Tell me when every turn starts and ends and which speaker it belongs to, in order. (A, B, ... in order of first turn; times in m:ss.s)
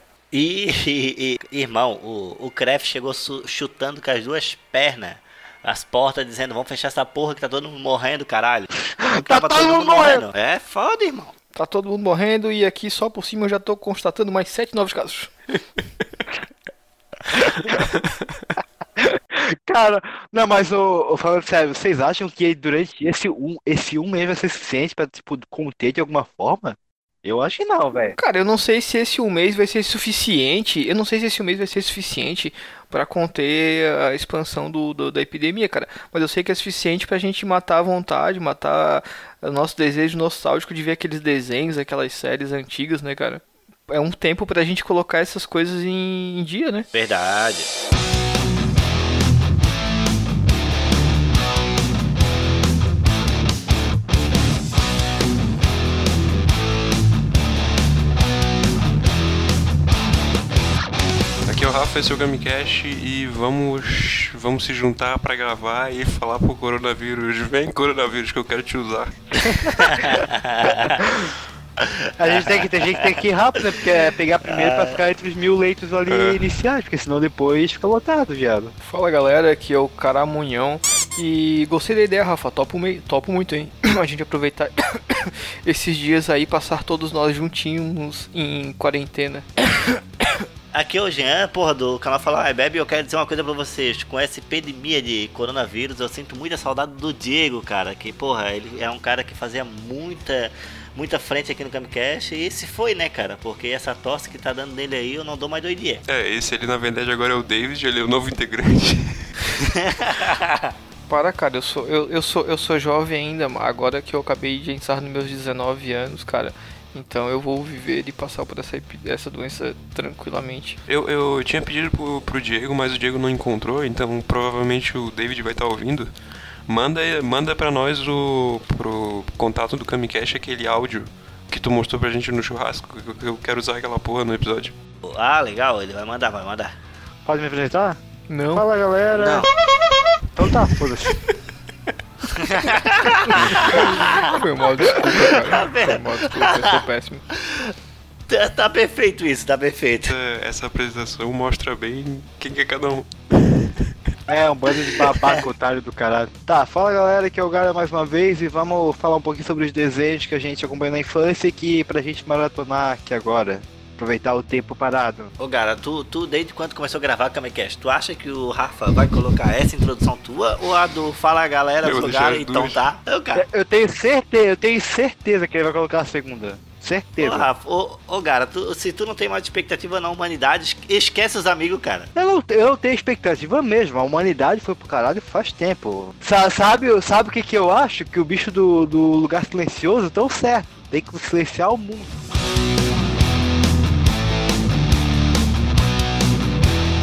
0:00.3-0:11.3 A
0:09.0-0:10.2 B
0:11.6-0:15.3 C
0:19.0-0:28.2 B
0:28.2-0:46.9 C
0:46.9-0:47.7 A
1:01.4-1:09.1 D
1:09.5-1:11.0 A
1:11.0-1:11.4 B
1:11.8-1:13.2 A
1:12.2-1:18.7 B
1:14.4-1:15.0 A
1:16.1-1:16.6 D
1:18.8-1:30.4 C
1:30.7-1:46.0 A
1:46.1-1:49.7 D
1:49.6-1:50.7 A
1:51.1-2:00.8 C
2:00.9-2:06.1 D
2:06.7-2:14.7 D
2:15.0-2:16.7 A
2:17.3-2:18.0 B
2:18.3-2:18.7 C
2:18.5-2:19.5 B
2:19.2-2:19.5 A
2:20.4-2:21.2 B
2:22.3-2:27.7 A
2:23.3-2:27.2 C
2:28.3-2:30.2 A
2:30.1-2:33.7 D
2:34.3-2:45.3 B
2:35.2-2:35.4 A
2:45.4-2:53.4 A
2:51.8-2:52.8 D
2:53.4-2:57.5 B
2:57.2-3:02.1 A
3:02.2-3:12.1 B